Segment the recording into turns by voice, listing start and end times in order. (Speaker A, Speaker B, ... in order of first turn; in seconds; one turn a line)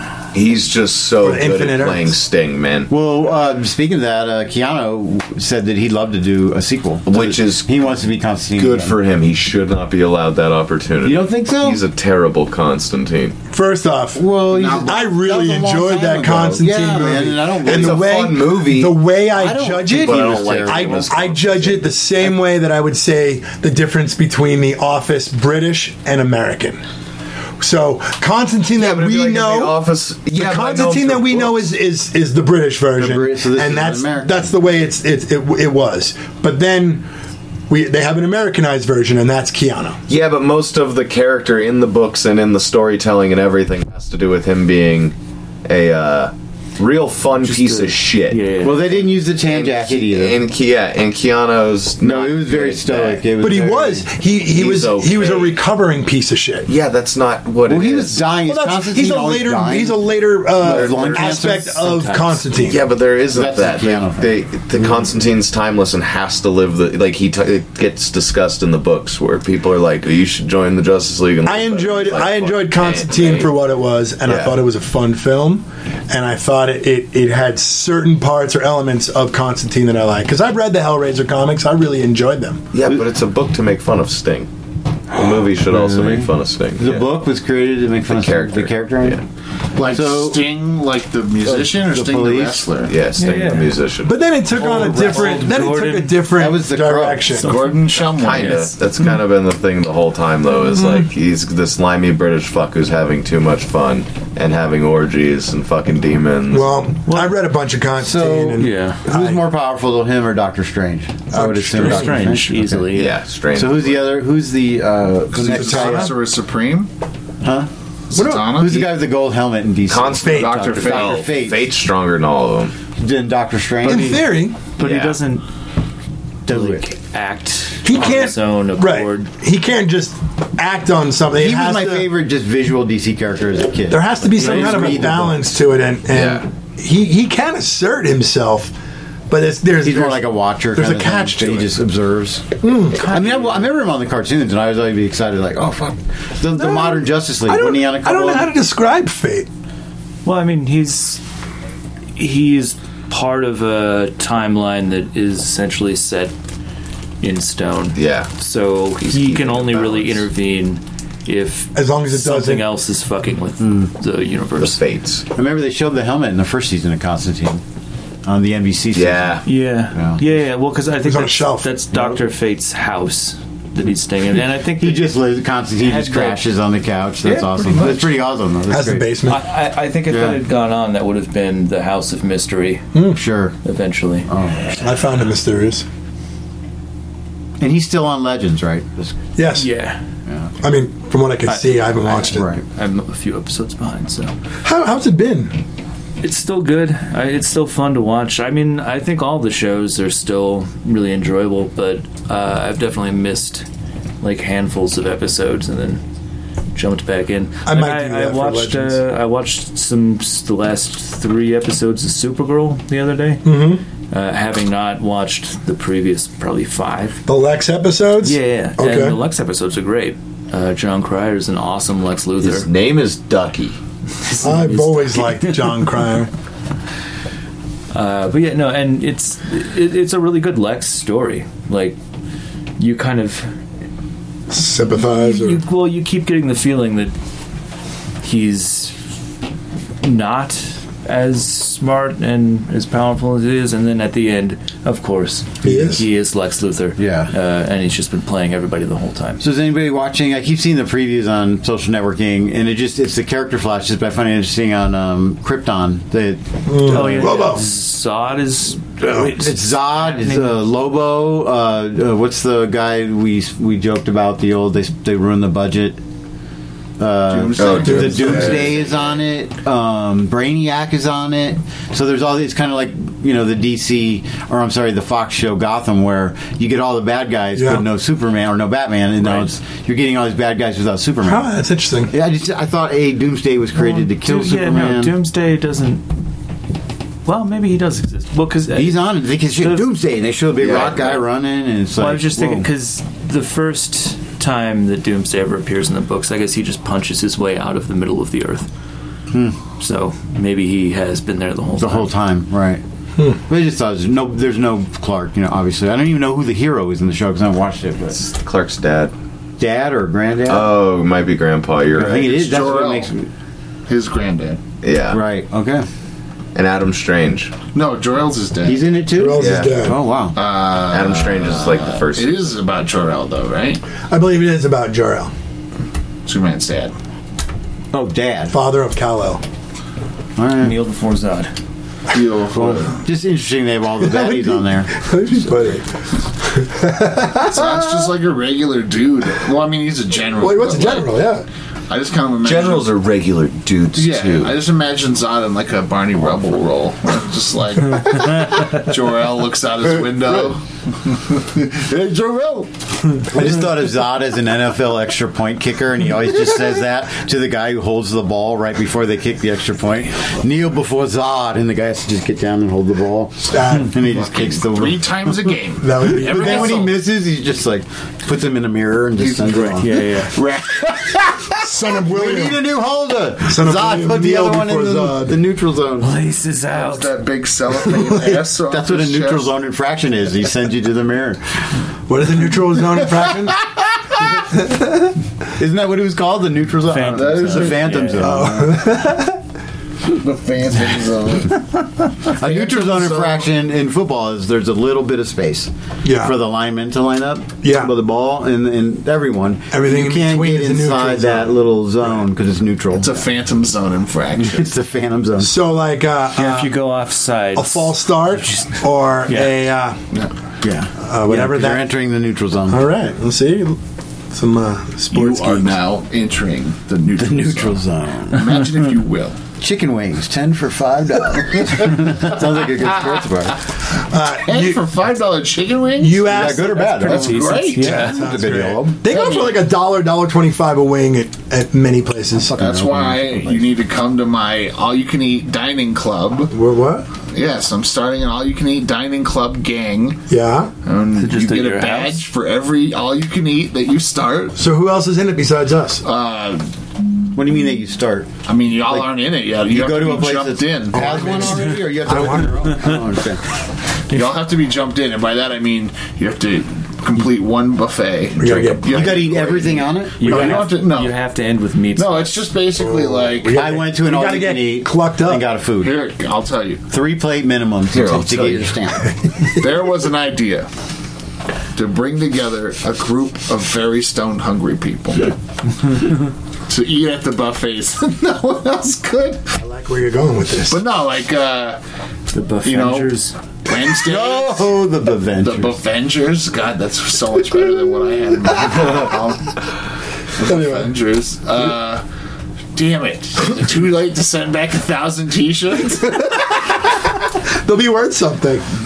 Speaker A: 0.3-2.9
Speaker B: 1.2-2.2
Speaker C: 2.9-9.0
Speaker A: 7.1-8.0
Speaker A: 8.6-13.4
Speaker C: 11.0-11.8
Speaker B: 13.5-14.2
Speaker C: 14.2-18.1
Speaker D: 14.5-14.9
Speaker B: 14.8-26.8
Speaker A: 17.6-19.0
Speaker C: 19.3-21.1
Speaker A: 19.9-21.9
Speaker B: 27.6-37.1
Speaker A: 28.8-31.7
Speaker C: 33.0-34.4
Speaker B: 37.7-40.0
Speaker A: 40.1-53.2
Speaker E: 47.4-48.9
Speaker C: 48.6-50.4
Speaker C: 52.0-54.1
Speaker B: 53.4-56.7
Speaker A: 54.5-55.6
Speaker A: 56.7-58.2
Speaker C: 57.7-62.0
Speaker B: 58.4-62.8
Speaker A: 60.6-61.5
Speaker E: 61.7-62.4
Speaker A: 62.5-73.5
Speaker C: 63.3-64.3
Speaker B: 71.5-82.7
Speaker A: 74.3-74.6
Speaker A: 82.7-84.5
Speaker A: 85.1-87.1
Speaker C: 85.2-89.2
Speaker A: 88.1-89.2
Speaker D: 89.8-93.0
Speaker C: 89.8-90.5
Speaker C: 91.4-92.7
Speaker A: 92.8-94.2
Speaker E: 93.2-93.8
Speaker B: 94.0-97.6
Speaker E: 94.6-96.3
Speaker C: 94.6-95.4
Speaker C: 96.3-97.4
Speaker E: 97.4-98.7
Speaker D: 97.4-98.7
Speaker A: 98.0-106.8
Speaker B: 100.7-101.1
Speaker B: 106.5-109.5
Speaker E: 107.1-107.3
Speaker C: 108.0-112.9
Speaker E: 108.6-109.0
Speaker B: 111.3-112.4
Speaker E: 111.7-113.2
Speaker A: 112.9-114.1
Speaker C: 113.5-116.2
Speaker D: 115.3-116.9
Speaker B: 115.5-116.1
Speaker C: 117.4-117.7
Speaker D: 118.1-118.9
Speaker B: 118.2-118.7
Speaker C: 118.5-121.7
Speaker A: 119.9-122.7
Speaker B: 120.2-120.6
Speaker D: 120.3-121.2
Speaker C: 123.0-124.2
Speaker B: 123.8-124.6
Speaker E: 123.8-125.5
Speaker A: 124.8-125.2
Speaker C: 126.5-126.8
Speaker E: 126.5-129.3
Speaker B: 127.8-132.1
Speaker C: 131.3-135.4
Speaker B: 133.9-138.7
Speaker E: 134.4-135.1
Speaker A: 136.1-136.4
Speaker B: 139.3-141.8
Speaker C: 139.8-142.5
Speaker B: 142.6-143.4
Speaker C: 143.0-148.5
Speaker E: 143.1-143.6
Speaker B: 146.5-149.5
Speaker E: 150.2-151.2
Speaker E: 152.2-156.3
Speaker E: 157.2-164.8
Speaker A: 157.9-158.3
Speaker A: 159.0-160.3
Speaker B: 161.8-162.7
Speaker C: 163.6-163.9
Speaker A: 164.6-165.2
Speaker C: 165.3-167.6
Speaker C: 168.2-170.2
Speaker A: 168.9-169.4
Speaker E: 169.4-175.2
Speaker B: 171.0-171.8
Speaker C: 171.9-172.2
Speaker C: 174.6-179.1
Speaker E: 175.8-176.4
Speaker E: 177.2-178.2
Speaker B: 178.7-179.4
Speaker E: 179.3-182.9
Speaker C: 180.1-180.4
Speaker B: 182.9-183.2
Speaker C: 183.1-183.6
Speaker E: 183.6-184.3
Speaker C: 184.3-184.7
Speaker B: 184.8-185.8
Speaker C: 187.6-189.2
Speaker B: 189.4-189.7
Speaker E: 189.6-190.0
Speaker B: 190.6-192.5
Speaker E: 191.5-194.3
Speaker C: 192.3-192.6
Speaker B: 194.6-195.6
Speaker E: 196.2-203.7
Speaker E: 204.2-206.0
Speaker E: 206.8-213.5
Speaker B: 207.7-209.0
Speaker B: 213.4-213.8
Speaker E: 214.1-217.2
Speaker B: 217.3-219.2
Speaker E: 218.2-222.7
Speaker A: 222.4-223.8
Speaker E: 224.2-225.8
Speaker B: 224.4-226.3
Speaker E: 227.9-232.0
Speaker E: 232.8-233.5
Speaker B: 234.5-235.6
Speaker E: 234.9-237.1
Speaker E: 238.2-239.0
Speaker E: 240.0-249.4
Speaker B: 245.6-246.0
Speaker C: 245.6-246.1
Speaker C: 247.0-247.3
Speaker C: 249.4-257.6
Speaker B: 256.7-257.6
Speaker E: 256.9-260.6
Speaker C: 259.1-266.0
Speaker C: 267.0-281.5
Speaker D: 267.3-268.9
Speaker A: 267.6-269.2
Speaker B: 267.9-268.7
Speaker B: 277.6-277.9
Speaker E: 279.2-279.5
Speaker B: 281.2-282.1
Speaker C: 282.1-285.1
Speaker E: 283.8-286.1
Speaker E: 287.3-289.9
Speaker C: 288.7-292.7
Speaker A: 290.6-291.2
Speaker E: 292.0-298.7
Speaker C: 299.3-299.6
Speaker E: 299.8-302.1
Speaker C: 301.8-302.8
Speaker C: 303.5-308.2
Speaker A: 308.2-309.1
Speaker C: 309.6-310.7
Speaker A: 310.5-312.4
Speaker C: 312.0-313.3
Speaker D: 312.1-313.1
Speaker D: 313.9-314.6
Speaker A: 314.8-315.2
Speaker C: 315.1-315.9
Speaker A: 316.6-317.5
Speaker D: 317.7-318.9
Speaker C: 318.6-320.4
Speaker B: 319.1-320.0
Speaker A: 319.4-319.8
Speaker D: 320.4-323.8
Speaker A: 320.9-322.5
Speaker B: 324.1-325.3
Speaker D: 326.3-326.9
Speaker C: 327.9-328.6
Speaker B: 328.5-329.4
Speaker C: 330.4-330.8
Speaker E: 330.6-331.5
Speaker D: 332.1-333.0
Speaker C: 332.5-335.0
Speaker B: 334.0-335.9
Speaker B: 336.4-338.1
Speaker D: 337.5-341.1
Speaker B: 340.4-341.5
Speaker D: 341.9-342.9
Speaker A: 342.4-344.6
Speaker D: 343.9-353.2
Speaker C: 353.3-365.3
Speaker B: 363.5-364.2
Speaker D: 364.1-367.0
Speaker B: 365.8-366.9
Speaker C: 366.1-370.0
Speaker D: 369.2-372.0
Speaker E: 369.8-370.3
Speaker B: 371.6-372.6
Speaker C: 371.9-376.1
Speaker B: 373.4-375.4
Speaker E: 376.0-377.1
Speaker D: 376.7-379.5
Speaker C: 378.7-381.7
Speaker B: 382.1-383.6
Speaker B: 384.5-385.1
Speaker C: 385.6-388.8
Speaker E: 386.9-388.3
Speaker D: 387.1-388.0
Speaker B: 388.2-389.4
Speaker D: 390.1-391.9
Speaker C: 392.3-403.2
Speaker D: 392.4-393.4
Speaker B: 396.0-396.4
Speaker B: 397.6-397.9
Speaker B: 399.7-401.6
Speaker D: 402.9-404.7
Speaker C: 404.4-405.5
Speaker B: 405.4-406.8
Speaker E: 406.4-409.6
Speaker B: 407.6-410.0
Speaker C: 410.6-412.8
Speaker B: 411.0-411.9
Speaker B: 412.7-413.8
Speaker B: 414.3-415.8
Speaker D: 415.1-417.8
Speaker C: 417.2-418.7
Speaker D: 418.3-419.4
Speaker C: 419.6-423.6
Speaker B: 424.0-424.8
Speaker D: 424.4-428.1
Speaker B: 426.0-432.6
Speaker C: 426.3-429.0
Speaker E: 426.9-428.2
Speaker D: 429.1-429.6
Speaker C: 432.5-433.7
Speaker D: 432.6-436.5
Speaker B: 436.5-437.1
Speaker D: 437.3-440.2
Speaker B: 440.3-440.7
Speaker D: 440.9-444.6
Speaker E: 441.1-442.3
Speaker B: 444.6-446.0
Speaker D: 446.0-446.6
Speaker C: 447.3-448.3
Speaker D: 448.5-451.7
Speaker C: 448.8-453.4
Speaker B: 450.9-452.9
Speaker D: 454.1-461.2
Speaker B: 458.4-459.0
Speaker C: 458.9-460.6
Speaker E: 460.2-462.4
Speaker B: 460.3-460.6
Speaker D: 461.9-463.6
Speaker B: 462.8-465.5
Speaker C: 463.5-466.0
Speaker D: 465.8-466.8
Speaker C: 466.9-469.1
Speaker A: 467.9-468.9
Speaker D: 469.5-470.7
Speaker D: 471.8-475.3
Speaker D: 476.7-479.4
Speaker B: 479.5-480.8
Speaker D: 480.7-481.8
Speaker E: 482.3-483.4
Speaker D: 482.6-483.1
Speaker D: 483.7-484.8
Speaker C: 483.8-485.8
Speaker D: 485.4-489.6
Speaker D: 490.4-492.0
Speaker B: 490.4-490.9
Speaker D: 492.8-496.3
Speaker B: 496.3-498.7